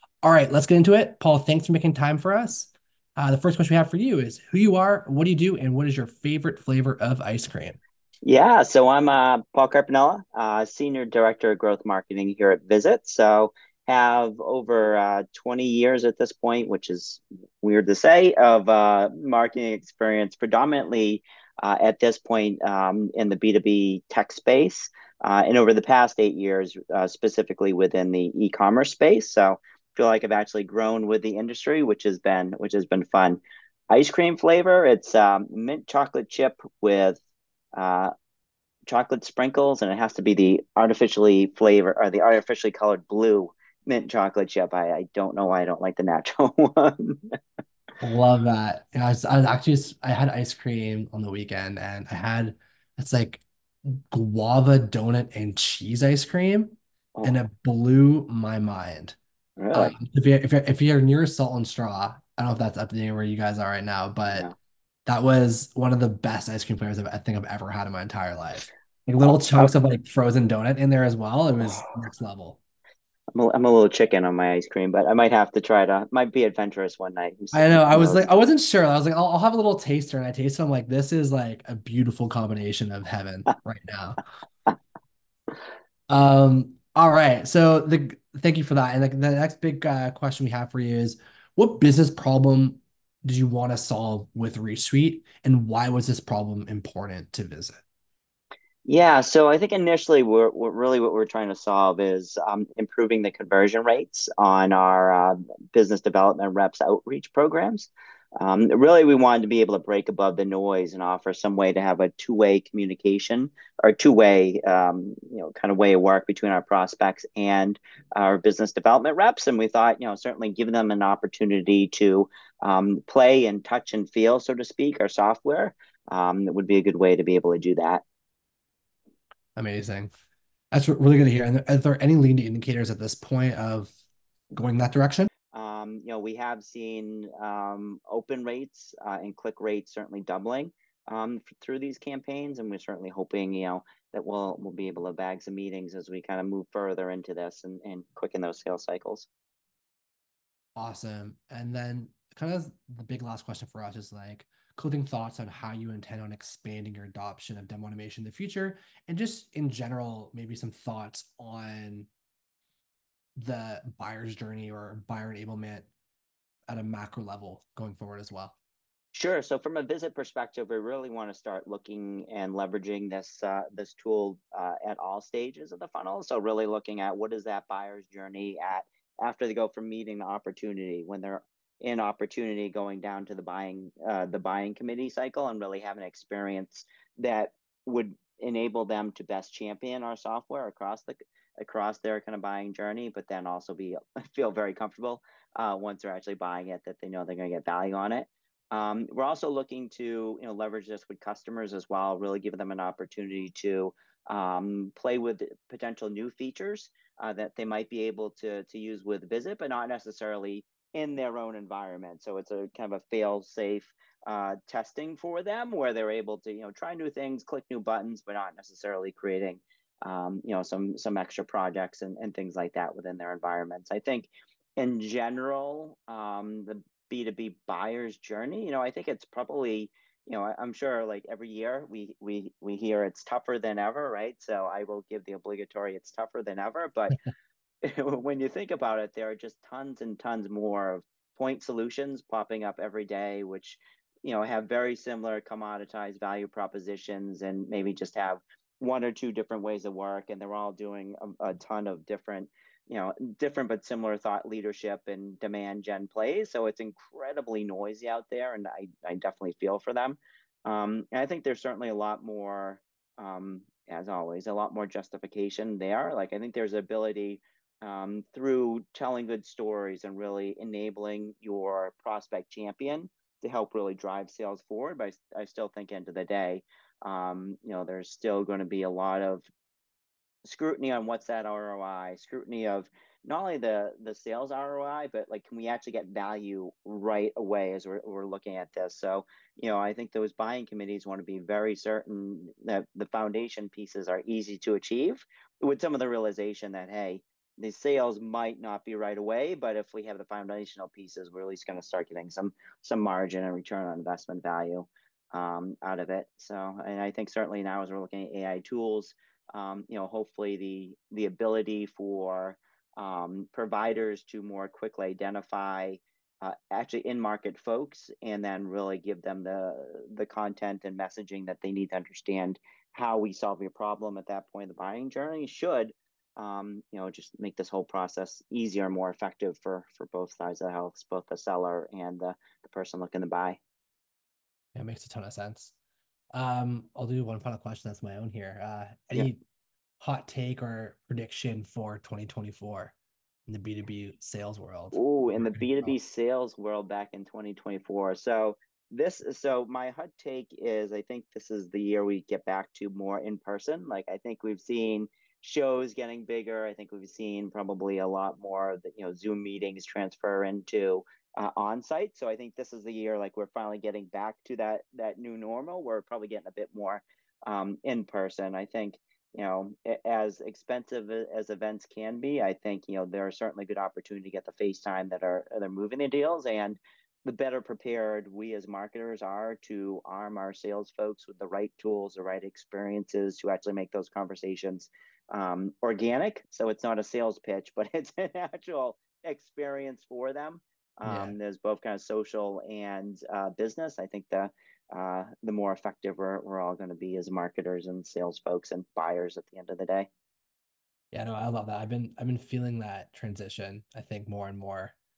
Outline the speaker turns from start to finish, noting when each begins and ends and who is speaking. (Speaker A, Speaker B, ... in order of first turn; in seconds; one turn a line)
Speaker A: 0.2-7.8
Speaker B: 8.2-37.2
Speaker B: 37.8-38.1
Speaker B: 38.9-47.2
Speaker A: 48.0-59.2
Speaker B: 59.6-59.9
Speaker A: 59.7-64.5
Speaker A: 65.1-72.6
Speaker B: 69.2-69.7
Speaker B: 73.3-78.3
Speaker A: 77.5-84.2
Speaker A: 86.1-97.8
Speaker B: 98.8-128.0
Speaker A: 129.6-130.1
Speaker A: 130.7-133.9
Speaker A: 134.5-135.3
Speaker B: 135.5-149.3
Speaker A: 150.8-162.1
Speaker A: 163.4-165.9
Speaker A: 166.7-168.6
Speaker B: 169.2-237.2
Speaker B: 237.9-279.5
Speaker B: 280.5-333.6
Speaker A: 334.8-335.7
Speaker A: 336.3-339.4
Speaker A: 340.0-343.0
Speaker A: 343.5-345.9
Speaker B: 344.9-400.1
Speaker A: 391.1-391.4
Speaker A: 401.1-405.0